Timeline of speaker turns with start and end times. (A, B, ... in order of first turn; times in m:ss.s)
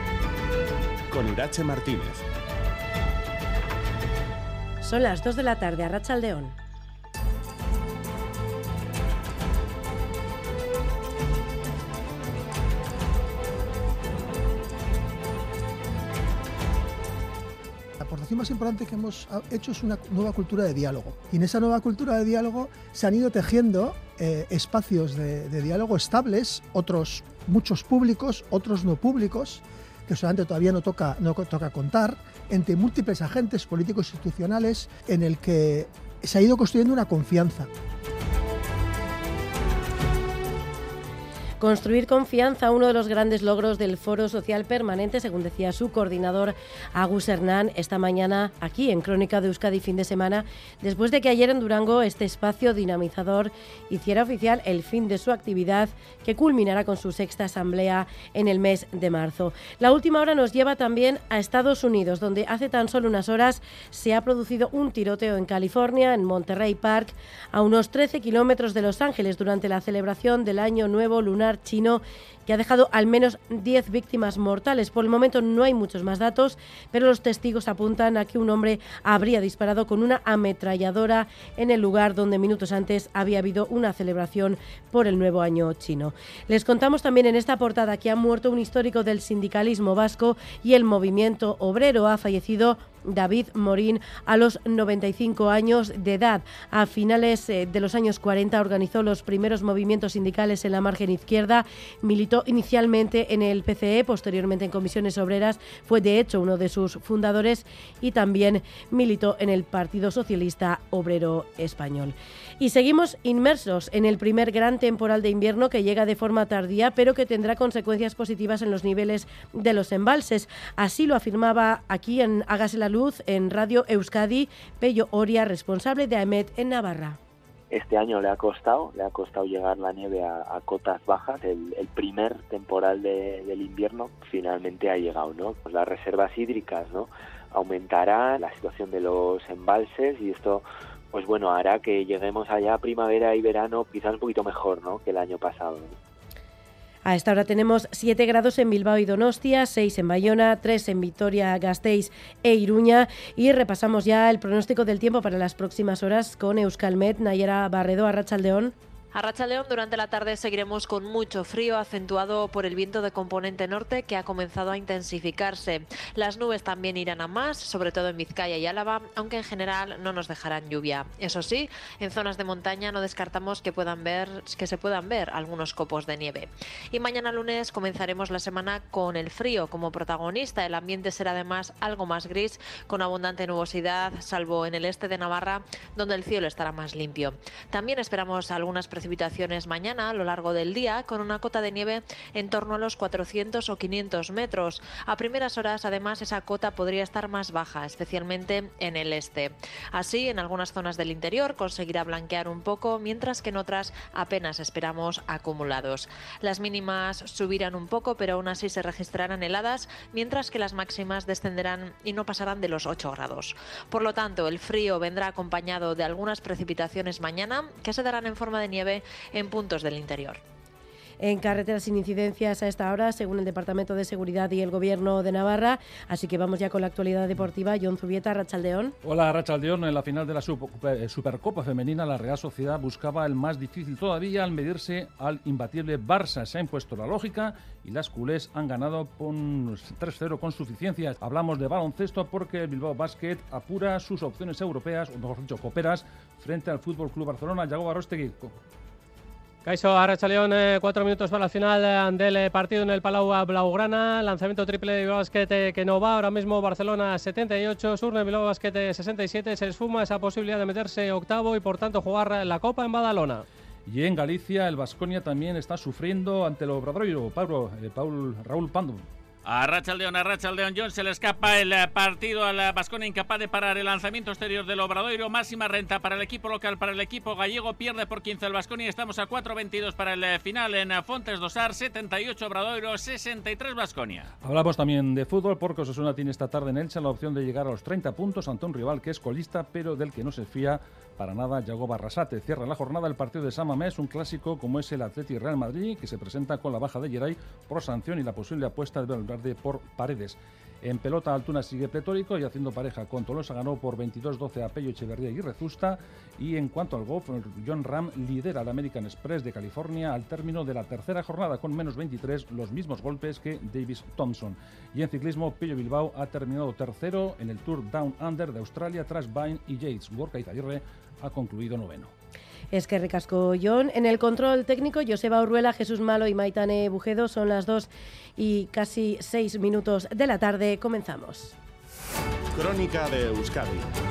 0:01.1-0:02.2 A
0:04.8-0:06.6 B
0:18.0-0:37.7 C
0:41.6-2:07.2 B
2:07.7-2:26.0 D
2:27.0-2:38.7 B
2:39.1-3:40.4 E
3:41.2-3:49.0 B
3:49.0-4:08.5 F
4:09.6-4:23.4 G
4:23.9-4:29.0 F
4:29.4-4:44.3 H
4:44.4-5:22.1 F
5:22.7-5:31.6 B
5:32.5-5:33.9 A